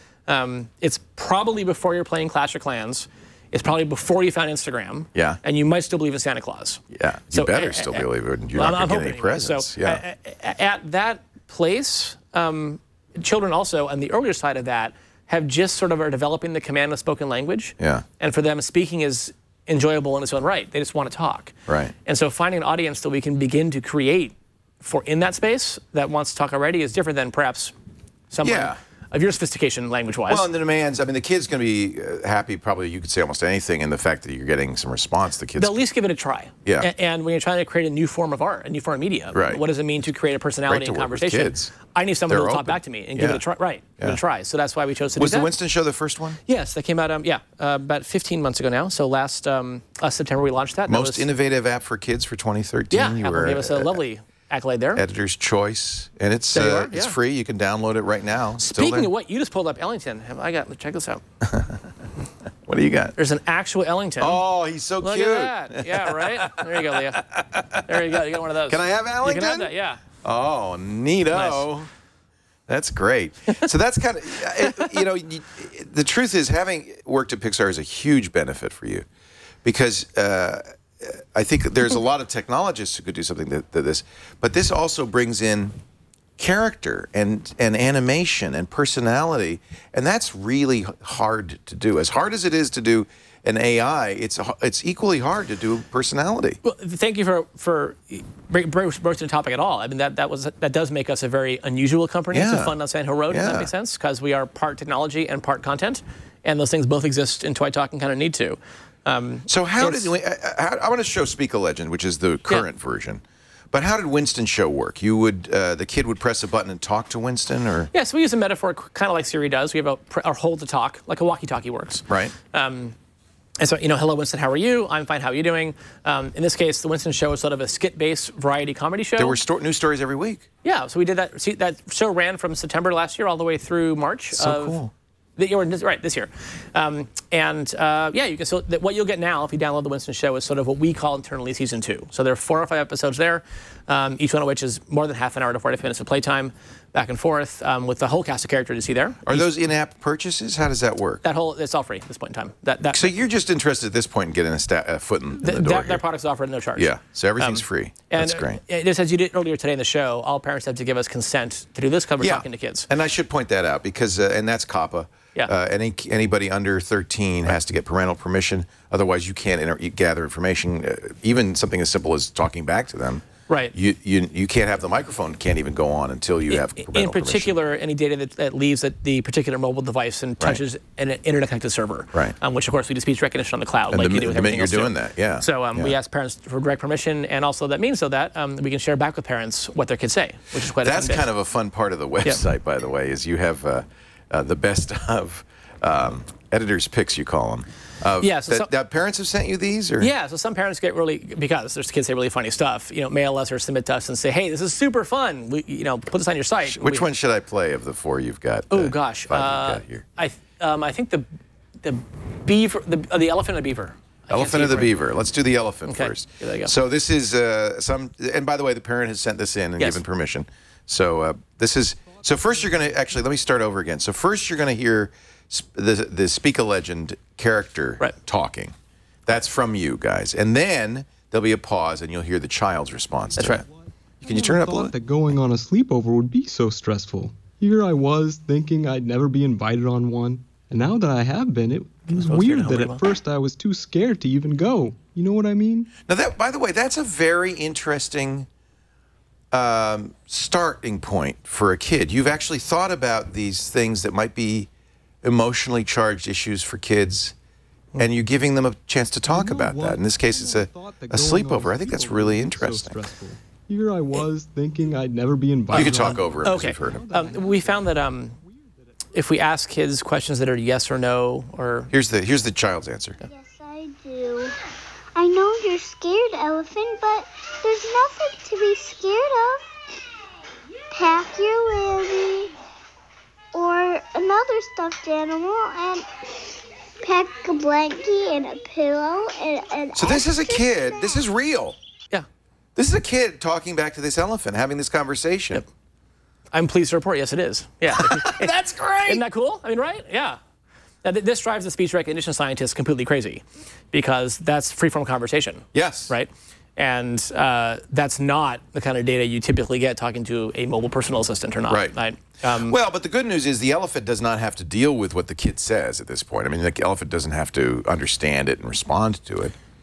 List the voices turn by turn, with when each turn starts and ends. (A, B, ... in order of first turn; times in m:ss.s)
0:00.3-0:21.5 A
0:05.1-0:05.4 B
0:06.9-0:10.0 B
0:17.8-0:18.0 B
0:21.7-0:21.9 B
0:22.0-0:27.7 A
0:28.3-0:30.4 A
0:28.4-0:28.8 B
0:30.3-0:35.7 B
0:35.6-0:45.5 A
0:36.6-0:36.9 B
0:39.3-0:39.6 B
0:40.7-0:41.7 B
0:42.3-0:43.4 B
0:45.2-0:46.4 B
0:46.5-0:51.2 A
0:50.9-0:54.0 B
0:52.9-0:55.0 A
0:54.9-0:59.1 B
0:56.5-0:57.2 A
0:58.6-1:01.2 A
1:01.4-1:01.8 B
1:02.6-1:03.1 B
1:03.2-1:04.4 A
1:04.2-1:11.9 B
1:05.0-1:07.2 A
1:07.8-1:10.0 A
1:11.3-1:11.7 A
1:12.7-1:19.0 B
1:19.6-1:25.8 B
1:26.4-1:36.6 B
1:36.6-1:50.1 A
1:42.3-1:42.7 B
1:43.3-1:43.7 B
1:49.5-1:57.9 B
1:57.9-2:02.9 A
2:02.1-2:02.3 B
2:03.6-2:09.4 A
2:09.2-2:10.5 B
2:10.6-2:14.8 A
2:14.3-2:14.9 B
2:15.4-2:29.5 A
2:29.2-2:31.2 B
2:31.2-2:33.1 A
2:32.9-2:36.0 B
2:35.4-2:42.9 A
2:36.8-2:38.6 B
2:42.2-2:57.5 B
2:53.5-2:53.7 A
2:56.5-3:11.3 A
3:03.9-3:06.0 B
3:10.8-3:20.1 B
3:18.2-3:18.7 A
3:20.0-3:27.1 A
3:26.6-3:30.0 B
3:28.7-3:31.3 A
3:31.8-3:34.9 A
3:34.3-3:48.7 B
3:35.9-3:36.7 A
3:49.2-3:53.6 B
3:53.4-3:53.6 A
3:54.2-4:05.9 C
3:54.2-3:54.9 B
4:02.1-4:03.0 A
4:06.1-4:08.5 B
4:09.5-4:14.7 B
4:15.2-4:17.3 B
4:18.0-4:23.0 B
4:19.3-4:28.7 C
4:25.7-4:27.0 B
4:25.7-4:28.4 A
4:29.1-4:31.9 A
4:31.9-4:33.2 B
4:33.2-4:34.5 D
4:35.1-4:39.7 D
4:40.9-4:42.5 D
4:43.5-4:46.0 D
4:47.0-4:51.2 D
4:49.9-4:51.8 B
4:52.8-4:55.6 B
4:56.5-5:00.4 A
4:57.9-4:59.2 B
5:01.0-5:12.8 A
5:05.7-5:06.1 B
5:11.7-5:12.0 B
5:12.6-5:19.5 B